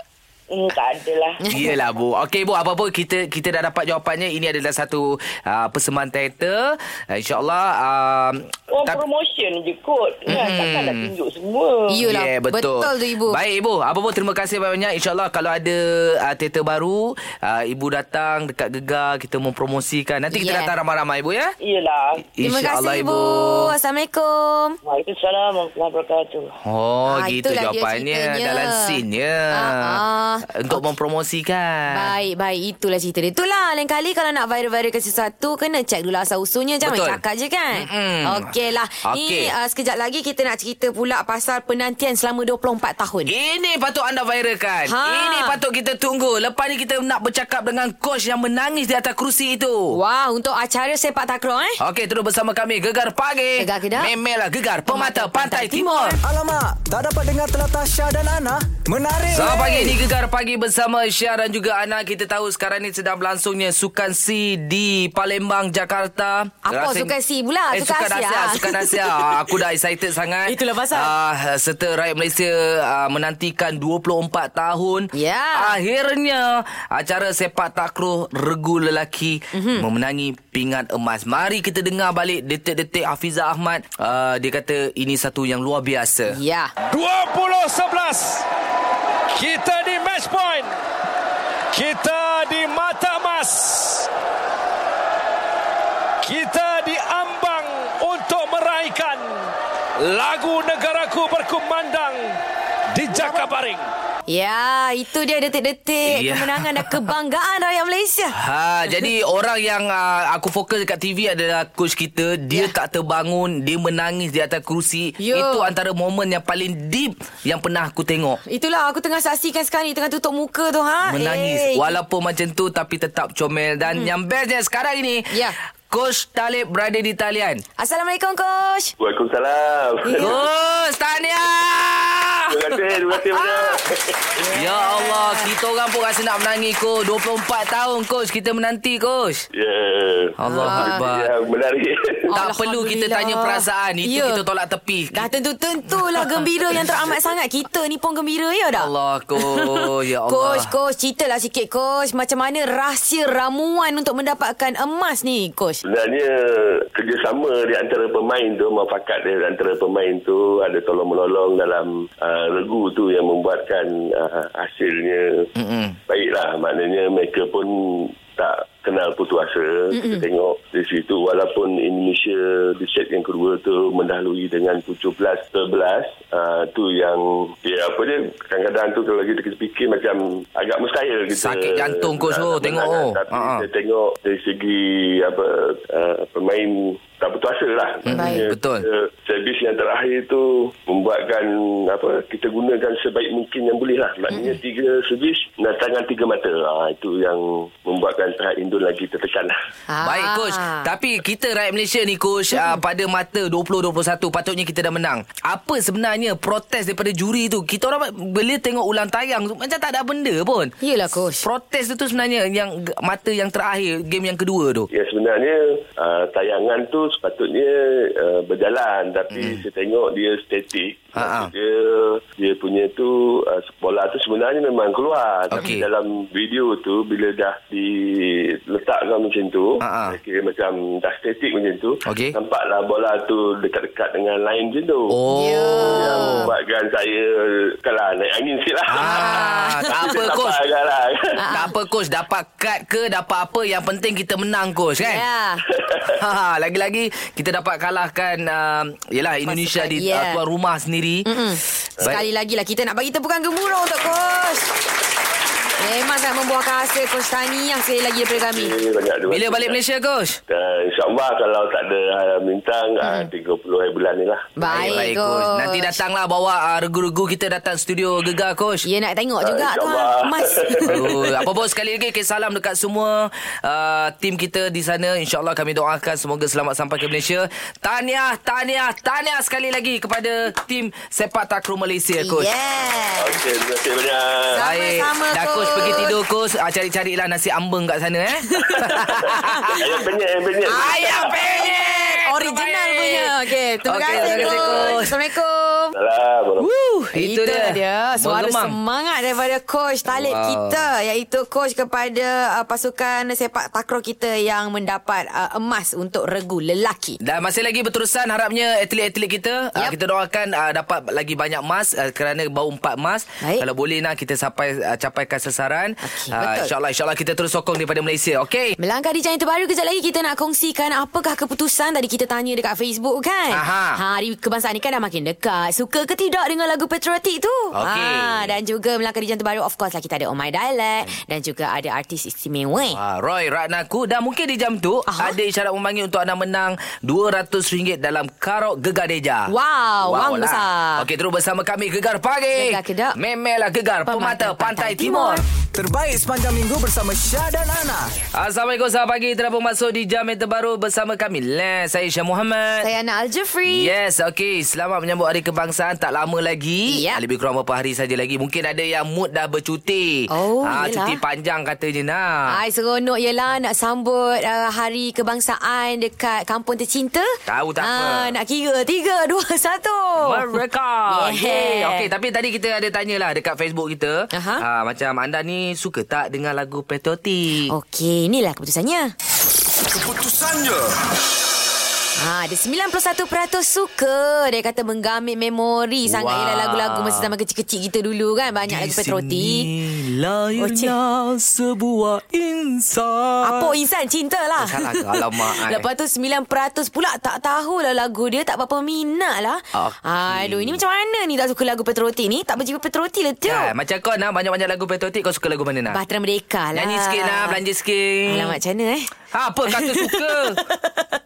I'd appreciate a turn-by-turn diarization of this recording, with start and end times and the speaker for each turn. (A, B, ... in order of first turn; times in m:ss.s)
0:00.5-0:01.4 A
0:01.4-0:01.7 B
0:01.5-0:09.0 C
0:08.7-0:11.9 A
0:10.3-0:11.1 C
0:11.9-0:13.4 B
0:12.0-0:21.5 C
0:20.3-0:20.7 B
0:21.6-0:22.2 A
0:22.4-0:23.7 C
0:22.4-0:24.8 B
0:24.8-0:26.5 A
0:26.6-0:32.1 C
0:27.1-0:29.0 B
0:29.5-0:30.9 B
0:31.9-0:43.3 B
0:36.8-0:37.2 C
0:37.7-0:38.5 C
0:39.0-0:39.5 C
0:43.2-0:50.0 C
0:44.9-0:45.6 B
0:49.9-0:51.8 B
0:51.8-0:56.2 C
0:53.6-0:54.1 B
0:54.9-0:56.2 B
0:56.2-1:00.0 D
0:59.3-1:07.1 C
1:06.6-1:09.3 B
1:07.7-1:26.4 C
1:10.5-1:11.1 B
1:15.1-1:15.8 B
1:19.5-1:19.8 B
1:26.3-1:26.7 B
1:26.9-1:28.4 E
1:29.3-1:30.8 E
1:31.7-1:34.1 E
1:36.2-1:42.4 E
1:42.9-1:43.8 E
1:43.1-1:43.4 B
1:44.3-1:48.4 B
1:46.0-1:46.9 C
1:48.4-1:58.4 C
1:55.2-1:55.7 B
1:58.4-2:02.0 B
2:01.0-2:05.3 C
2:05.9-2:07.6 C
2:07.8-2:08.9 B
2:09.0-2:10.4 F
2:10.0-2:10.4 B
2:10.2-2:12.8 C
2:12.5-2:14.2 F
2:13.3-2:13.8 C
2:14.4-2:15.5 B
2:14.5-2:19.4 C
2:19.5-2:22.3 F
2:20.4-2:21.3 C
2:20.4-2:21.0 B
2:22.3-2:24.4 B
2:22.3-2:25.3 C
2:25.1-2:35.8 B
2:26.0-2:26.5 C
2:28.7-2:30.7 C
2:35.8-2:45.5 F
2:45.6-2:46.0 C
2:46.1-3:19.5 F
2:49.9-2:50.2 B
3:01.3-3:03.6 C
3:08.0-3:08.8 C
3:08.1-3:08.4 B
3:14.3-3:14.6 B
3:19.9-3:20.9 B
3:20.0-3:30.7 C
3:30.8-3:31.4 B
3:31.4-3:34.9 C
3:34.9-3:55.1 F
3:39.3-3:39.6 C
3:41.1-3:41.5 C
3:45.5-3:45.8 C
3:49.8-3:50.2 C
3:52.0-3:52.3 C
3:55.1-3:56.5 C
3:55.3-3:56.5 B
3:55.8-4:01.4 F
3:58.9-4:00.6 C
3:59.0-3:59.9 B
4:01.4-4:01.7 B
4:01.5-4:05.2 C
4:05.0-4:05.6 B
4:05.7-4:06.0 F
4:06.2-4:11.3 C
4:09.5-4:10.4 B
4:11.2-4:14.7 B
4:15.8-4:18.8 B
4:18.5-4:19.8 F
4:19.3-4:20.4 C
4:20.5-4:24.5 F
4:23.0-4:23.3 B
4:24.6-4:26.0 B
4:24.6-4:28.8 C
4:28.8-4:31.2 B
4:29.4-4:30.8 F
4:30.8-4:42.5 C
4:42.2-4:43.4 B
4:43.2-4:44.6 F
4:44.5-4:46.2 B
4:44.6-4:49.8 C
4:48.5-4:49.8 B
4:49.6-4:51.5 F
4:50.7-4:55.9 B
4:50.7-4:55.1 C
4:54.2-4:54.8 F
4:55.9-4:56.7 F
4:56.6-4:58.8 C
4:57.1-5:07.2 B
5:00.1-5:00.8 C
5:07.2-5:18.8 C
5:13.4-5:13.6 B
5:16.0-5:16.7 B
5:18.8-5:33.0 B
5:23.5-5:24.0 C
5:27.7-5:28.5 C
5:32.9-5:39.5 C
5:35.1-5:35.4 B
5:39.5-5:41.0 B
5:40.0-5:45.4 C
5:42.5-5:43.2 B
5:44.0-5:45.4 B
5:45.7-5:48.1 D
5:48.3-5:52.9 C
5:52.8-5:53.9 B
5:53.7-6:02.5 C
5:56.9-5:57.2 B
6:00.3-6:01.2 B
6:02.5-6:10.6 B
6:07.5-6:08.3 C
6:10.2-6:17.7 C
6:11.1-6:12.1 B
6:14.3-6:14.6 B
6:17.7-6:19.1 B
6:22.2-6:29.7 B
6:26.0-6:27.3 C
6:28.7-6:33.7 C
6:30.6-6:31.0 B
6:33.4-6:43.7 B
6:34.6-6:35.8 C
6:39.7-6:40.8 C
6:43.4-6:46.0 C
6:45.9-6:47.6 B
6:46.7-6:48.6 C
6:48.3-6:49.1 B
6:49.3-6:50.6 C
6:49.7-6:51.0 B